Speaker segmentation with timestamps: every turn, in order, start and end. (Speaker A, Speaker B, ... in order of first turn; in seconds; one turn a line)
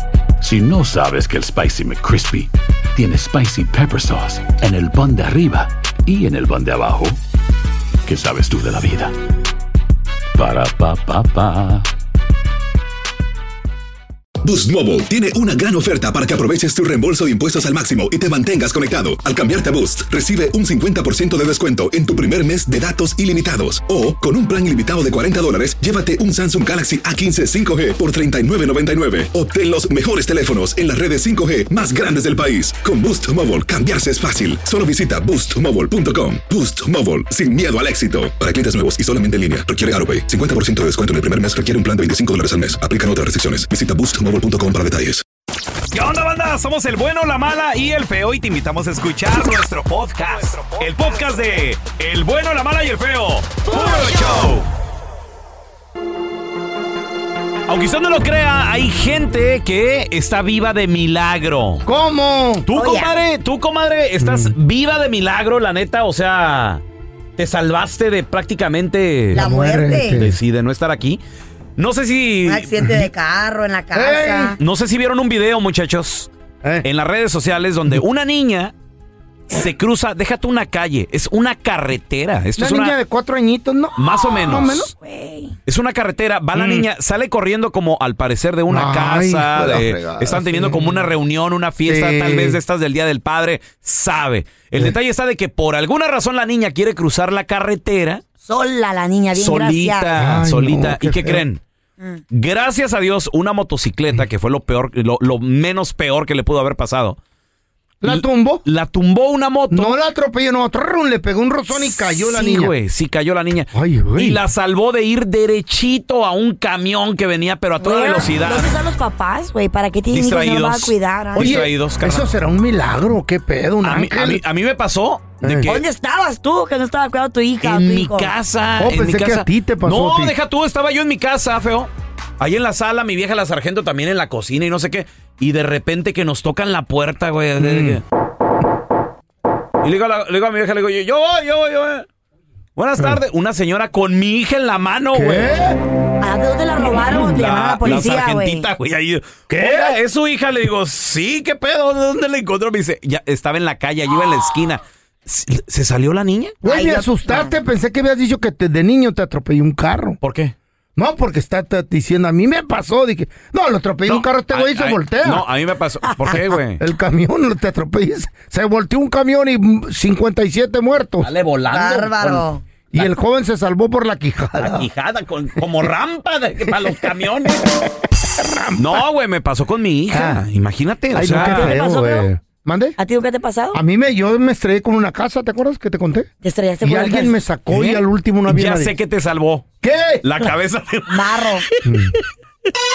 Speaker A: 0.4-7.2
Speaker A: 8.1-9.1
Speaker A: 10.3-11.9
Speaker B: 14.4-45.2
Speaker C: 45.9-54.7
Speaker D: 53.7-54.5
Speaker C: 57.7-61.8
Speaker E: 61.8-62.7
Speaker C: 62.6-66.8
Speaker D: 62.7-63.2
Speaker E: 64.2-64.5
Speaker C: 67.4-69.4
Speaker D: 69.3-70.2
Speaker E: 69.3-70.3
Speaker C: 70.1-71.2
Speaker C: 71.8-72.8
Speaker D: 72.4-74.6
Speaker E: 73.9-74.6
Speaker C: 74.6-76.3
Speaker C: 76.8-78.7
Speaker C: 79.5-83.0
Speaker E: 82.6-84.9
Speaker C: 84.0-84.9
Speaker D: 84.4-85.5
Speaker C: 85.7-98.2
Speaker E: 86.5-86.8
Speaker E: 88.7-91.0
Speaker E: 91.8-92.6
Speaker D: 98.4-100.1
Speaker C: 99.3-101.6
Speaker E: 100.2-101.4
Speaker C: 102.3-107.2
Speaker E: 108.0-108.6
Speaker C: 108.0-110.0
Speaker E: 109.7-112.7
Speaker C: 111.7-118.7
Speaker E: 113.7-114.4
Speaker D: 117.8-121.6
Speaker C: 120.1-122.4
Speaker E: 121.3-124.4
Speaker C: 123.8-125.8
Speaker E: 125.4-125.7
Speaker D: 125.6-128.3
Speaker C: 127.6-138.0
Speaker E: 128.8-130.3
Speaker E: 137.6-138.0
Speaker C: 139.8-142.1
Speaker C: 142.8-145.5
Speaker E: 145.1-145.8
Speaker D: 146.2-148.7
Speaker C: 147.1-156.5
Speaker E: 149.5-149.9
Speaker E: 156.6-160.2
Speaker D: 156.6-157.5
Speaker C: 160.2-160.5
Speaker E: 161.0-165.4
Speaker C: 164.1-166.8
Speaker E: 166.8-171.3
Speaker C: 171.2-172.4
Speaker D: 171.7-172.6
Speaker E: 172.9-174.9
Speaker C: 174.6-177.6
Speaker E: 178.4-179.0
Speaker C: 178.8-181.8
Speaker E: 180.1-180.4
Speaker E: 181.1-182.9
Speaker D: 181.3-182.3
Speaker D: 183.0-183.8
Speaker E: 183.7-186.3
Speaker D: 186.4-187.4
Speaker E: 186.8-188.9
Speaker C: 187.7-191.8
Speaker E: 189.8-190.2
Speaker D: 191.1-191.7
Speaker E: 191.8-192.1